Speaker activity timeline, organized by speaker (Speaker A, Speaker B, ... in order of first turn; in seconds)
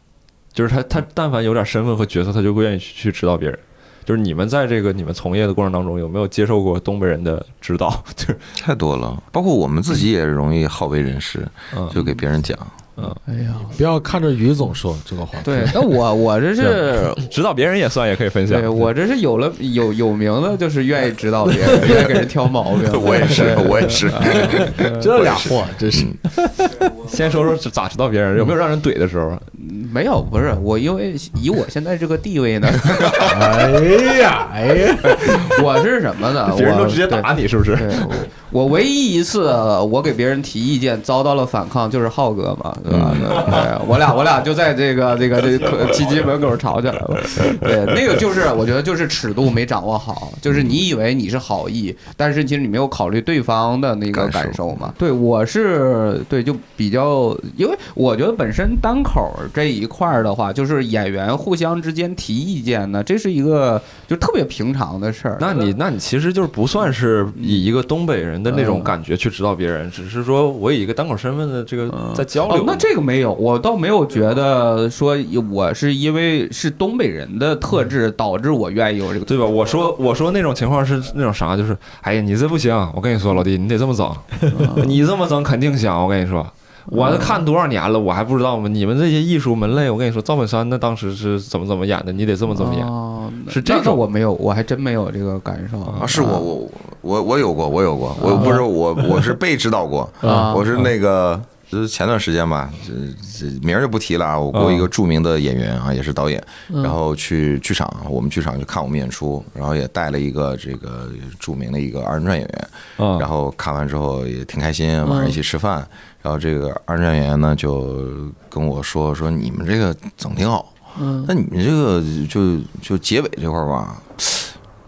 Speaker A: 0.5-8.5, 11.7-12.0, 13.0-13.2, 17.2-18.8, 27.0-29.4, 36.5-38.2, 65.4-72.9, 79.3-92.9, 93.5-94.0, 104.5-104.9, 113.0-113.3
Speaker B: 8.6-12.8, 22.8-26.2, 42.9-43.6, 50.5-50.8, 54.1-54.9, 96.0-124.5
Speaker C: 13.3-13.8, 15.4-17.2, 18.5-25.1, 29.5-33.5, 35.0-65.7, 67.3-67.6, 68.5-68.9, 71.9-79.3, 84.5-85.0, 86.9-87.4, 92.5-96.5, 98.2-98.6, 100.2-100.8, 106.7-107.0, 115.0-115.4, 121.0-121.3
Speaker D: 13.6-15.9, 16.6-16.8, 21.7-22.0, 24.1-26.9, 33.2-35.5, 100.2-100.6